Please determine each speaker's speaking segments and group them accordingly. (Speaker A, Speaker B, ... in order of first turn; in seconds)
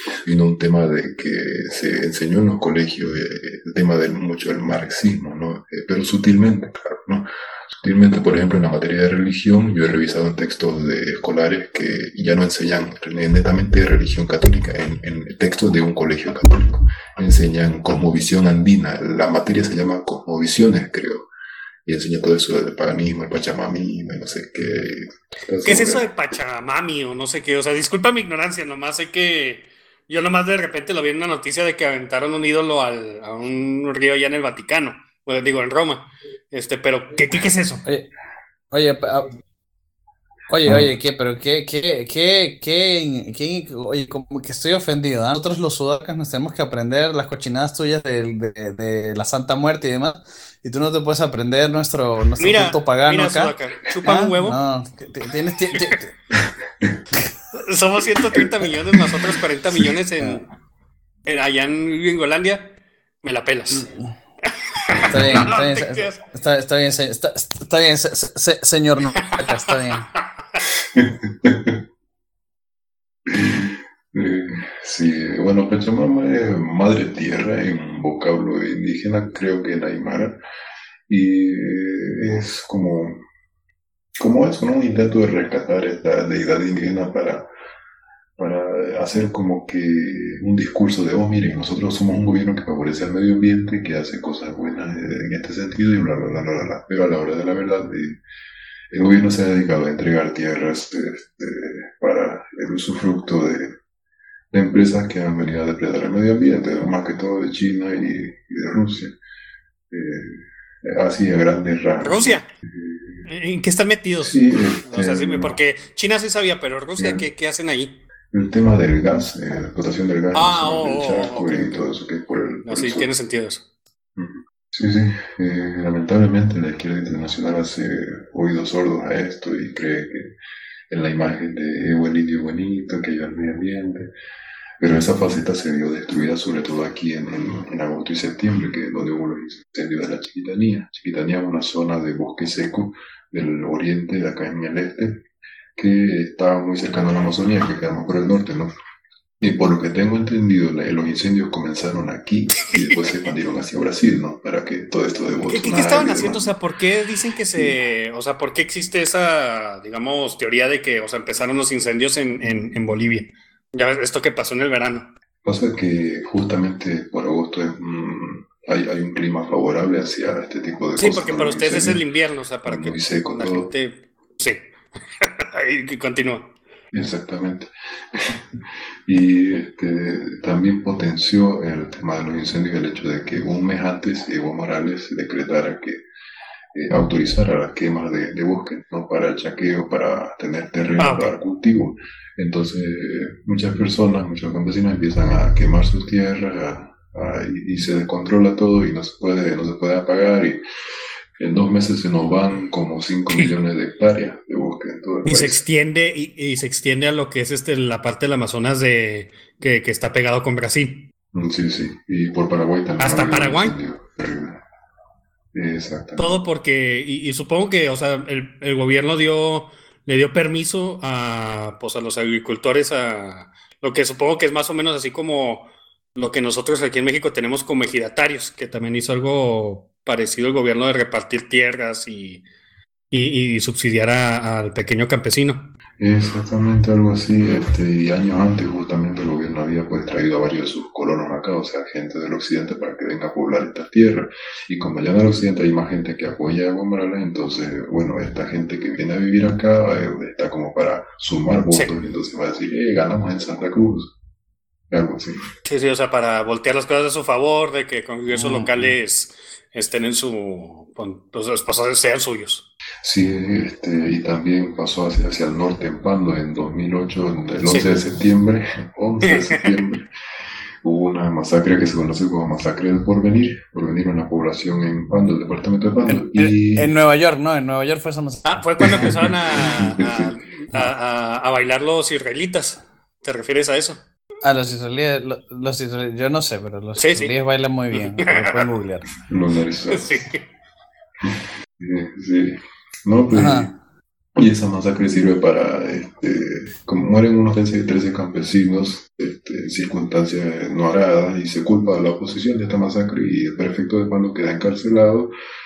Speaker A: 0.2-21.3, 21.9-26.1, 70.9-71.8, 73.3-80.4, 81.1-83.2, 84.2-87.5, 88.4-98.2, 98.9-103.7, 104.5-109.1, 109.9-113.2, 114.2-115.6, 117.0-117.2, 118.3-123.1, 124.2-130.3, 130.9-134.1, 134.8-148.7, 149.4-156.5, 165.4-172.0, 172.6-173.7, 176.9-186.0, 186.7-200.6, 201.4-205.6, 211.3-214.6, 215.5-216.4, 236.0-254.1, 254.9-255.4, 263.0-270.1, 270.8-276.9, 279.0-280.9, 289.3-290.3, 291.2-293.8, 294.4-305.3
Speaker B: 25.6-37.8, 52.4-54.6, 57.7-60.4, 61.2-63.9, 64.8-66.2, 69.3-69.8, 112.0-112.5, 113.3-118.0, 120.3-121.7, 122.6-123.6, 152.6-153.3, 155.5-165.1, 171.0-174.6, 175.2-176.5, 191.0-191.3, 205.2-211.1, 213.0-213.7, 216.2-232.4, 233.1-235.7, 251.7-252.0, 255.6-262.7, 267.6-268.0, 269.2-269.7, 278.4-284.0, 287.0-287.3, 287.9-288.6, 289.9-290.4
Speaker C: 38.7-39.3, 40.5-53.5, 54.0-56.1, 63.7-64.1, 65.0-70.1, 258.3-258.9, 276.1-278.7, 284.4-289.0, 293.3-293.7